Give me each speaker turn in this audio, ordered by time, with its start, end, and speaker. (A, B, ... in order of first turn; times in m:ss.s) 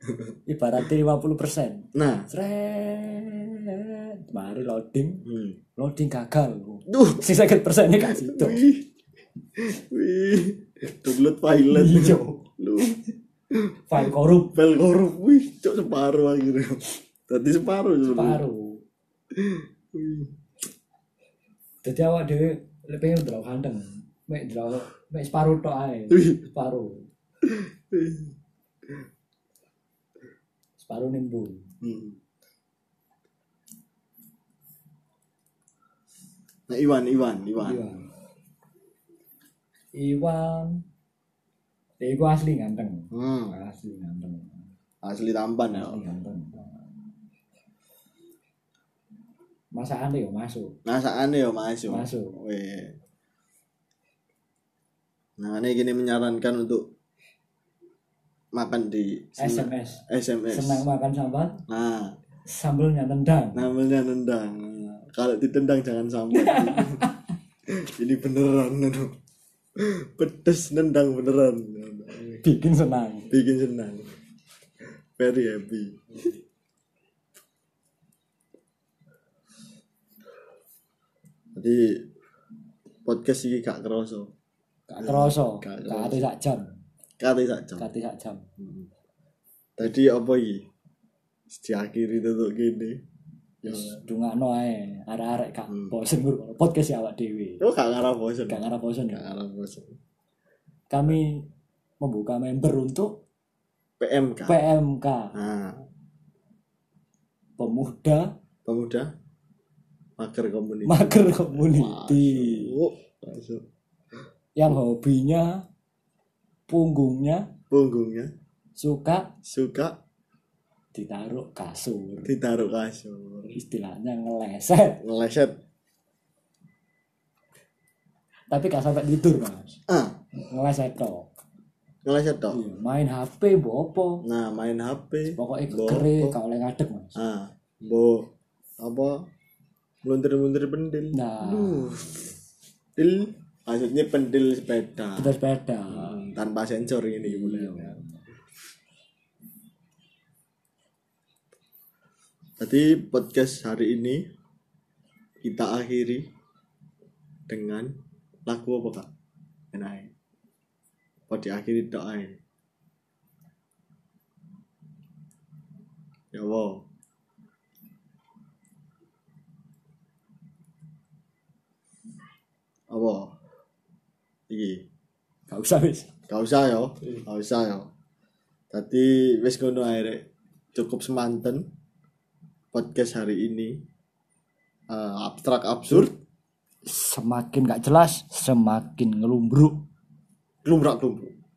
0:00.5-0:08.6 A
0:01.9-0:02.3 B
0:05.2-0:05.6 B
0:06.9-0:07.3 B
0:08.0-0:08.9 B
0:09.6-0:18.4 B
0:11.5-0:12.4 A
0:13.9-0:14.6 A
0:18.1-0:18.8 A
0:19.3-0:20.3 B
0:21.8-0:27.1 A
0:26.1-0:26.4 B
0:27.4-0:28.4 B
0:30.8-0:31.7 A
0:31.8-0:32.2 B
0:36.7-0:37.9 B
0:37.6-0:38.1 A
0:39.9-0:40.8 A
0:42.0-0:44.7 A
0:43.1-0:43.6 B
0:45.0-0:46.0 B
0:45.7-0:46.7 A
0:49.7-0:50.8 A
0:50.8-0:53.0 B
0:51.9-0:52.4 A
0:55.4-0:56.9 B
0:58.5-1:00.9 B
0:59.4-1:01.6 A
1:01.7-1:02.2 B
1:02.5-1:03.7 A
1:03.5-1:07.0 B
1:06.3-1:07.2 A
1:07.7-1:09.2 B
1:09.8-1:12.4 B
1:12.4-1:13.3 A
1:13.3-1:14.1 B
1:15.2-1:16.4 B
1:21.6-1:22.1 B
1:23.0-1:24.3 B
1:24.9-1:26.8 A
1:25.0-1:26.2 B
1:27.2-1:27.9 B
1:27.8-1:28.5 A
1:28.6-1:28.9 B
1:29.8-1:30.7 B
1:31.5-1:33.0 B
1:33.6-1:34.0 B
1:33.7-1:37.6 A
1:37.6-1:40.0 B
1:38.5-1:39.3 A
1:40.9-1:41.5 A
1:42.0-1:43.2 A
1:44.0-1:44.6 B
1:44.5-1:45.4 A
1:45.3-1:45.8 B
1:47.6-1:48.3 A
1:48.6-1:49.1 B
1:50.2-1:53.6 B
1:50.9-1:52.8 A
1:54.6-1:55.6 A
1:56.7-1:57.5 A
1:57.7-1:58.3 B
1:58.8-1:59.3 A
1:59.4-2:00.0 B
2:00.9-2:02.3 A
2:02.2-2:03.5 B
2:03.5-2:05.0 A
2:05.0-2:05.6 B
2:08.5-2:09.8 A
2:09.9-2:10.2 B
2:10.4-2:11.3 A
2:12.0-2:12.6 B
2:12.5-2:14.2 A
2:14.2-2:16.4 B
2:15.3-2:17.2 A
2:17.2-2:19.3 B
2:20.0-2:22.2 B
2:21.1-2:22.3 A
2:23.0-2:25.4 B
2:25.2-2:26.4 A
2:25.9-2:28.0 B
2:27.2-2:28.2 A
2:32.6-2:34.3 B
2:35.4-2:36.3 B
2:37.5-2:39.1 B
2:39.7-2:40.1 B
2:41.3-2:42.4 B
2:46.3-2:46.9 B
2:52.9-2:53.3 B
2:54.5-2:54.8 B
2:55.5-2:56.1 A
2:56.3-2:57.9 B
2:58.7-3:01.7 B
3:02.7-3:03.8 B
3:04.9-3:06.2 B
3:06.8-3:09.8 A
3:10.6-3:11.3 B